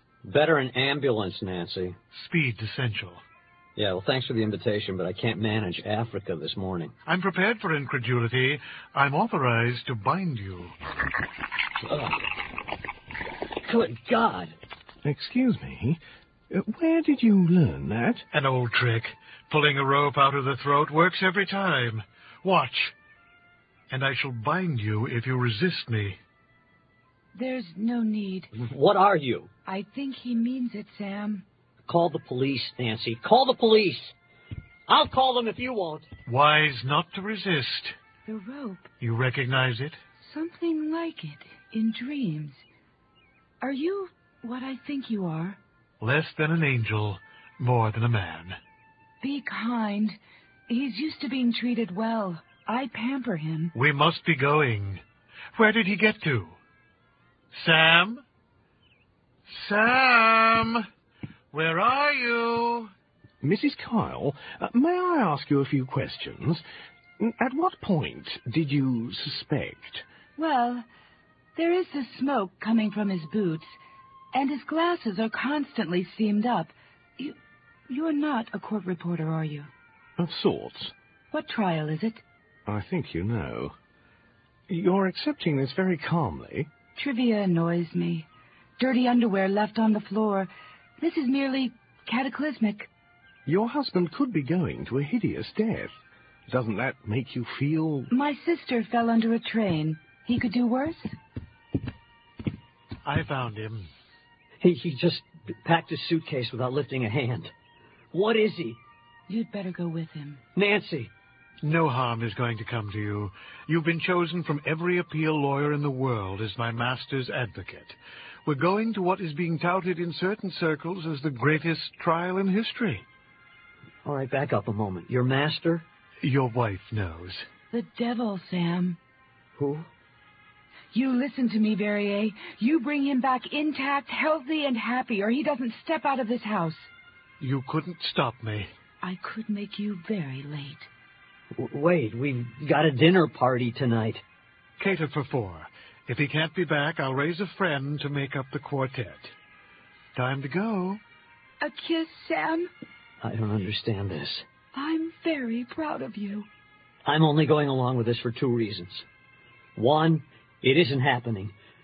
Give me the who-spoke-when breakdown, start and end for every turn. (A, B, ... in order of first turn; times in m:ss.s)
0:00.2-0:02.0 A
0:02.1-0:03.2 B
0:03.8-0:06.9 A
0:07.0-0:10.7 B
0:11.8-0:12.2 A
0:13.6-0:14.5 A
0:15.0-0:16.0 C
0:16.5-0:18.2 C
0:18.3-0:22.9 B
0:23.9-0:26.2 B
0:27.3-0:28.5 D
0:28.5-0:29.5 A
0:29.6-0:31.4 D
0:31.8-0:34.1 A
0:34.9-0:36.1 A
0:36.2-0:38.0 B
0:38.2-0:38.9 D
0:39.0-0:40.0 B
0:40.2-0:42.6 D
0:43.6-0:45.6 D
0:46.0-0:48.6 B
0:49.2-0:53.7 D
0:53.7-0:55.0 B
0:55.5-0:56.6 B
0:57.5-0:58.2 B
0:59.5-1:00.8 B
1:01.5-1:02.9 B
1:03.4-1:06.6 C
1:07.2-1:10.0 C
1:10.4-1:10.8 D
1:11.6-1:13.7 D
1:14.3-1:17.4 D
1:17.9-1:19.7 D
1:20.2-1:20.9 C
1:21.3-1:22.2 D
1:22.6-1:23.7 C
1:24.7-1:26.7 C
1:27.0-1:32.9 D
1:33.4-1:35.9 C
1:36.5-1:38.1 C
1:38.1-1:41.1 D
1:43.0-1:43.9 B
1:44.6-1:47.5 A
1:48.1-1:48.8 A
1:49.3-1:50.4 D
1:50.5-1:51.1 A
1:51.6-2:03.0 B
2:04.0-2:05.8 A
2:06.2-2:07.5 B
2:07.7-2:09.0 D
2:09.6-2:09.9 A
2:10.9-2:16.9 D
2:17.4-2:18.7 B
2:19.0-2:20.9 D
2:21.5-2:24.2 A
2:24.8-2:29.3 B
2:30.2-2:31.0 B
2:31.6-2:32.7 D
2:33.2-2:34.5 A
2:34.7-2:36.5 D
2:37.0-2:39.0 A
2:39.8-2:41.5 A